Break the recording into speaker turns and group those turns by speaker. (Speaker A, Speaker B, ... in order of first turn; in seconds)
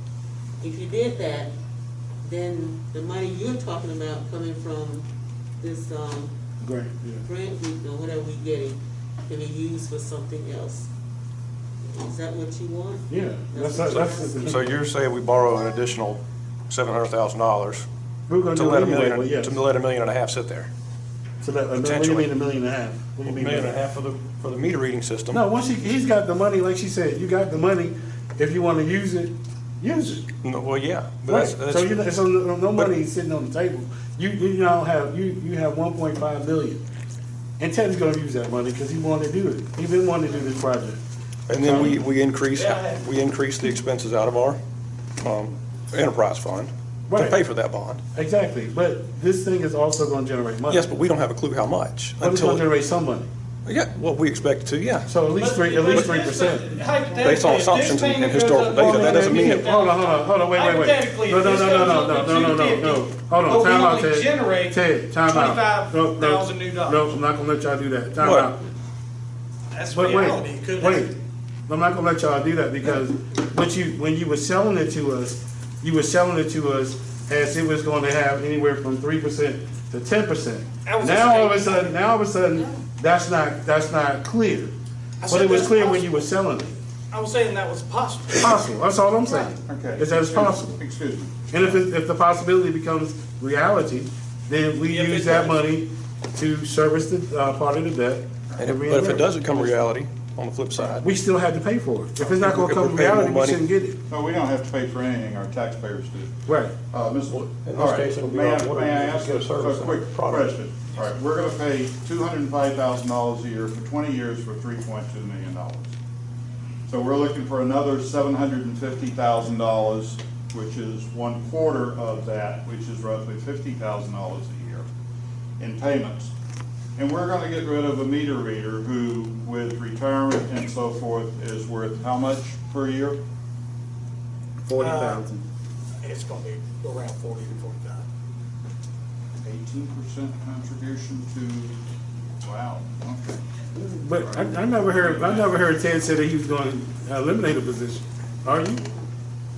Speaker A: 0.6-1.5, 2.2-5.1, 5.6-6.3, 7.2-10.9, 11.8-14.6
Speaker B: 6.6-7.2, 13.1-14.6, 18.3-19.6, 21.4-23.8, 25.3-30.2, 31.3-36.8, 37.6-41.0, 41.6-41.9, 47.1-47.4, 48.1-50.9, 52.2-53.3, 55.1-56.7, 58.7-68.6, 69.9-71.1, 71.7-84.7, 85.3-86.8, 88.4-90.8, 91.5-99.7, 101.0-104.0, 106.5-106.7, 134.6-135.4, 143.8-148.9
Speaker C: 14.4-17.9, 18.5-20.7, 21.8-22.3, 23.2-25.4, 30.4-32.0, 41.5-44.6, 45.2-48.0, 50.7-52.7, 53.7-55.1, 57.2-59.7, 68.2-68.5, 98.6-101.1, 102.2-103.6, 107.3-110.5
Speaker D: 42.5-43.0, 55.4-67.1, 69.7-71.1, 80.8-82.0, 85.2-86.3, 87.1-88.5, 94.9-95.6, 134.8-135.2, 136.0-138.1
Speaker E: 89.7-91.8, 104.1-106.3, 106.9-115.9, 116.9-124.9, 125.6-126.3, 127.0-133.2, 139.4-141.8, 142.4-143.4, 144.2-145.6